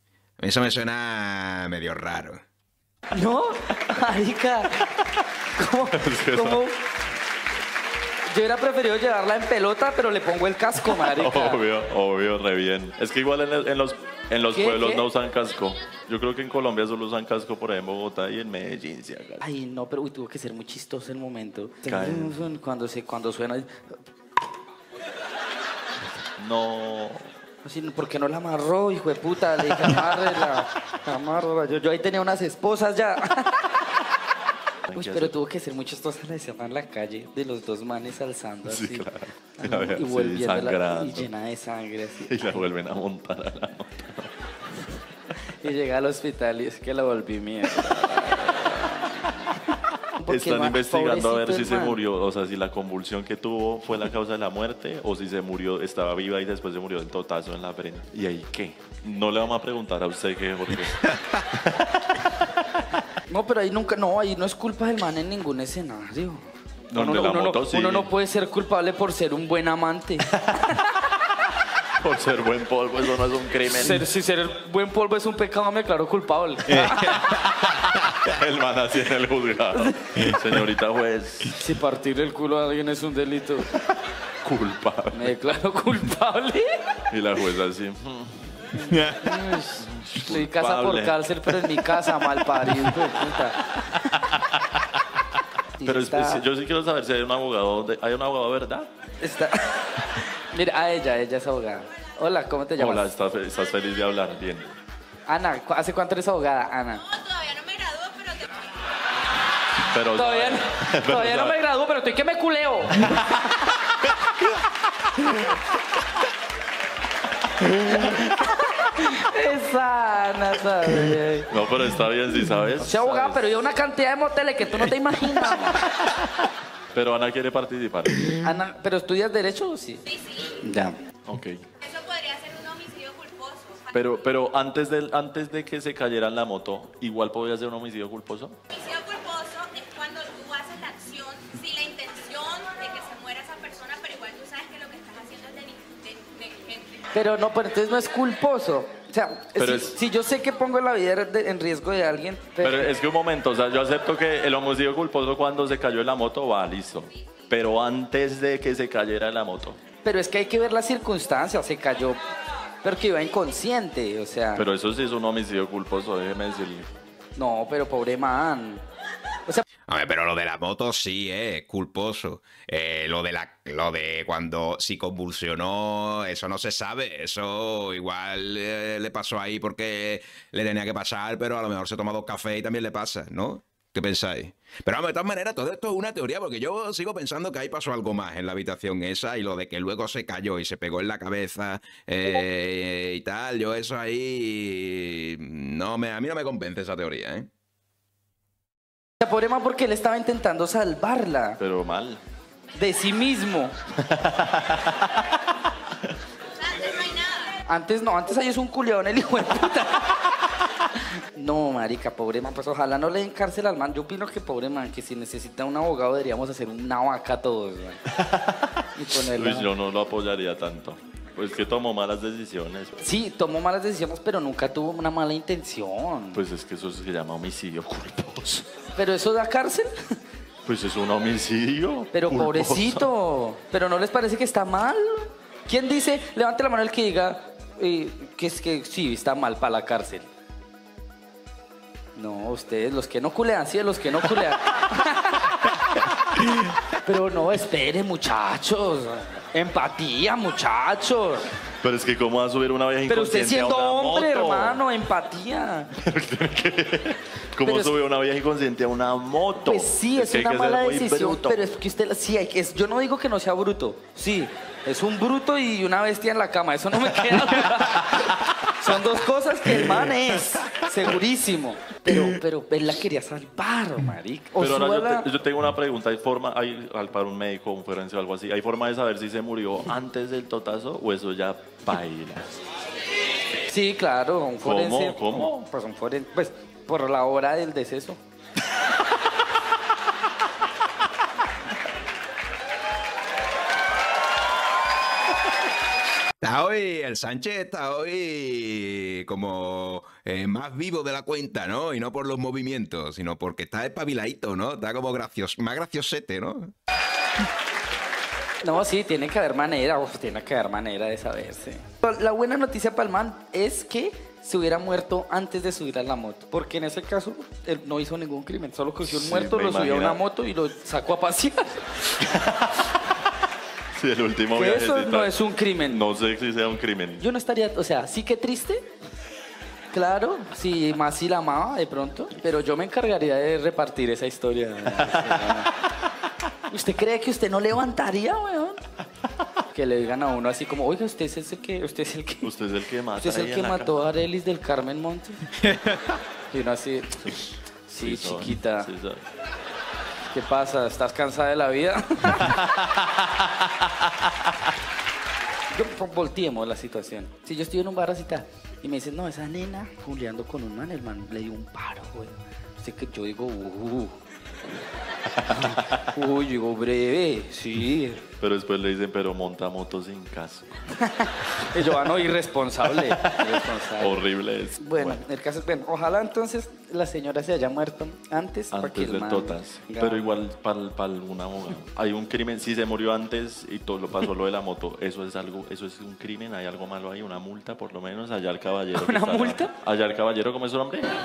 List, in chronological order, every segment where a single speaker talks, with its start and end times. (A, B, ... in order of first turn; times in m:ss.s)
0:00.4-0:02.4 A
0:03.1-0:04.9 B
0:05.4-0:06.8 B
0:05.9-0:06.6 C
0:08.3-0:11.6 B
0:10.9-0:19.4 C
0:14.5-0:15.0 B
0:19.4-0:24.0 B
0:21.8-0:22.4 C
0:26.4-0:27.3 C
0:27.6-0:33.9 B
0:34.9-0:35.3 C
0:34.9-0:39.0 B
0:38.7-0:41.3 C
0:39.6-0:42.5 B
0:42.2-0:44.3 C
0:45.6-0:49.6 B
0:50.2-0:52.0 B
0:50.3-1:02.2 C
1:03.3-1:11.0 B
1:06.9-1:08.1 C
1:10.3-1:10.6 C
1:12.0-1:14.0 C
1:13.7-1:17.4 B
1:16.7-1:17.4 A
1:17.3-1:21.5 C
1:20.2-1:20.4 A
1:21.5-1:23.7 B
1:24.4-1:25.3 C
1:25.1-1:26.8 B
1:27.1-1:28.8 C
1:28.8-1:33.8 B
1:28.8-1:29.4 A
1:29.8-1:32.3 C
1:34.3-1:34.6 C
1:35.8-1:36.4 B
1:35.8-1:38.9 C
1:39.2-1:43.1 B
1:42.8-1:44.7 C
1:45.3-1:47.0 B
1:47.0-1:48.8 D
1:49.9-1:51.6 C
1:50.1-1:53.3 B
1:57.6-2:01.5 B
1:57.9-1:58.2 C
2:01.5-2:03.4 C
2:02.8-2:05.8 B
2:06.9-2:08.5 C
2:08.4-2:10.0 B
2:10.0-2:10.6 D
2:10.6-2:11.0 B
2:11.2-2:11.6 C
2:11.8-2:14.1 D
2:13.9-2:18.6 C
2:18.7-2:27.1 D
2:27.1-2:32.9 B
2:29.6-2:29.9 C
2:32.6-2:39.8 C
2:40.0-2:42.2 B
2:42.8-2:44.6 B
2:44.6-2:46.9 C
2:47.4-2:48.8 B
2:49.9-3:17.5 A
3:19.2-3:21.6 B
3:21.6-3:22.2 C
3:22.7-3:23.7 B
3:24.0-3:25.2 C
3:26.6-3:27.6 D
3:27.7-3:30.3 B
3:31.0-3:38.0 B
3:38.1-3:43.0 C
3:38.9-3:39.7 B
3:43.0-3:46.4 B
3:46.3-3:48.6 C
3:49.0-3:50.2 B
3:50.6-3:53.1 C
3:52.1-4:00.3 B
4:02.2-4:05.6 B
4:07.0-4:11.5 B
4:11.8-4:14.8 C
4:13.1-4:15.9 B
4:16.0-4:21.7 C
4:17.6-4:18.0 B
4:19.6-4:35.3 B
4:28.0-4:28.5 C
4:29.8-4:31.1 C
4:34.6-4:42.5 C
4:43.6-4:48.2 B
4:44.6-4:45.6 C
4:56.4-5:06.7 A
5:08.6-5:22.3 B
5:19.0-5:20.2 C
5:22.2-5:23.0 C
5:23.9-5:27.2 C
5:24.5-5:26.0 B
5:27.2-5:28.8 B
5:29.9-5:35.7 B
5:35.0-5:35.6 C
5:36.7-5:38.8 B
5:39.7-5:42.5 B
5:42.4-5:43.9 C
5:43.2-5:45.4 B
5:45.6-5:46.1 A
5:46.5-5:48.9 B
5:48.0-5:49.2 C
5:50.3-5:52.6 B
5:55.7-6:04.2 B
6:05.4-6:08.2 B
6:08.4-6:10.8 C
6:11.0-6:14.2 B
6:12.9-6:15.2 C
6:14.8-6:20.2 B
6:18.7-6:31.1 C
6:28.9-6:29.7 B